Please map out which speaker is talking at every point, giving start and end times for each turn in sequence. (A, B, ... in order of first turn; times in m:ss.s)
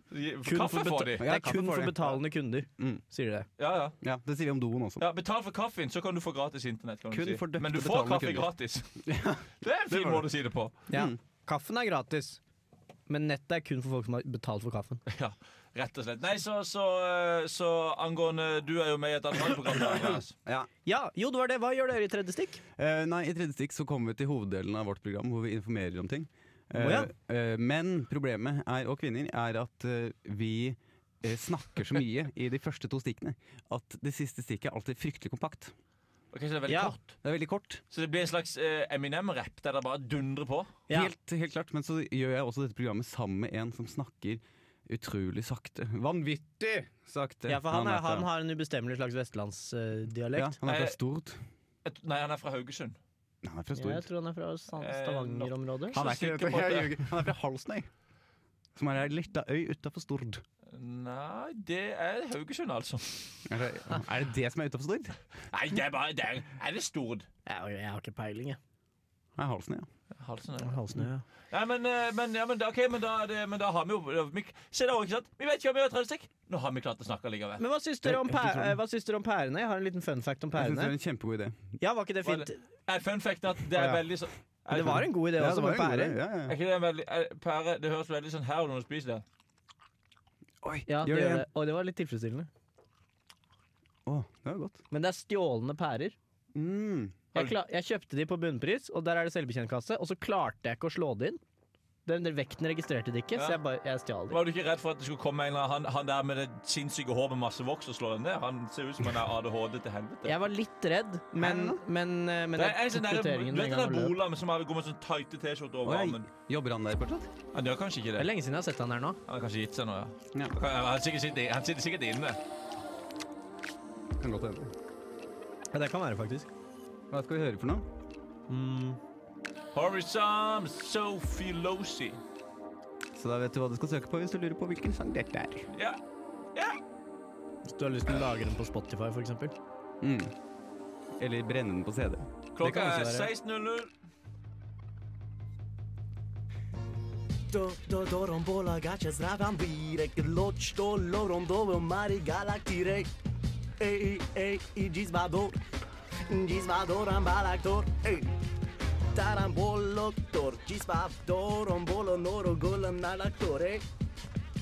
0:00.1-0:01.3 A
0:00.4-0:03.5 B
0:01.2-0:02.2 C
0:03.6-0:04.0 A
0:04.0-0:05.1 C
0:05.0-0:08.9 A
0:07.1-0:08.5 C
0:09.0-0:10.3 C
0:09.6-0:10.7 A
0:10.9-0:11.2 C
0:10.9-0:12.4 B
0:13.1-0:15.0 B
0:15.1-0:20.3 A
0:19.8-0:20.7 C
0:20.9-0:22.6 B
0:22.8-0:35.7 C
0:26.7-0:27.1 B
0:36.3-0:37.2 A
0:36.7-0:37.0 B
0:37.2-0:37.8 C
0:37.9-0:40.7 A
0:40.9-0:48.3 C
0:47.5-0:50.6 B
0:50.4-0:51.4 C
0:50.6-0:51.0 A
0:51.8-0:53.0 A
0:53.4-0:54.1 C
0:53.8-0:56.0 B
0:54.8-0:57.1 A
0:55.9-0:57.9 C
0:58.8-1:00.4 C
1:00.7-1:03.4 A
1:03.5-1:05.2 C
1:05.5-1:07.3 A
1:07.5-1:08.6 B
1:09.4-1:09.9 C
1:10.2-1:10.8 A
1:10.6-1:11.2 B
1:11.5-1:17.6 A
1:17.6-1:20.9 B
1:18.0-1:18.8 C
1:20.6-1:21.7 C
1:21.8-1:22.6 B
1:22.2-1:25.1 A
1:23.7-1:24.0 C
1:24.7-1:26.2 B
1:24.7-1:26.6 C
1:26.5-1:29.2 A
1:30.6-1:31.4 C
1:30.9-1:32.5 B
1:34.1-1:34.8 C
1:34.9-1:36.2 B
1:36.6-1:37.2 C
1:37.3-1:41.4 B
1:42.1-1:44.4 B
1:44.3-1:50.4 A
1:50.3-1:54.2 B
1:51.4-1:51.8 C
1:52.6-1:56.3 A
1:55.8-1:57.3 C
1:57.5-1:58.3 A
1:58.2-1:59.2 B
1:59.3-2:02.4 A
2:04.2-2:04.7 C
2:05.7-2:06.5 B
2:07.1-2:07.9 C
2:08.5-2:09.0 B
2:09.7-2:12.2 A
2:13.1-2:15.7 C
2:15.7-2:16.0 A
2:17.7-2:19.6 B
2:20.0-2:20.3 C
2:21.2-2:22.3 C
2:22.6-2:23.9 A
2:22.6-2:23.3 B
2:27.5-2:33.1 D
2:33.8-2:35.6 D
2:36.3-2:38.3 D
2:39.1-2:43.8 D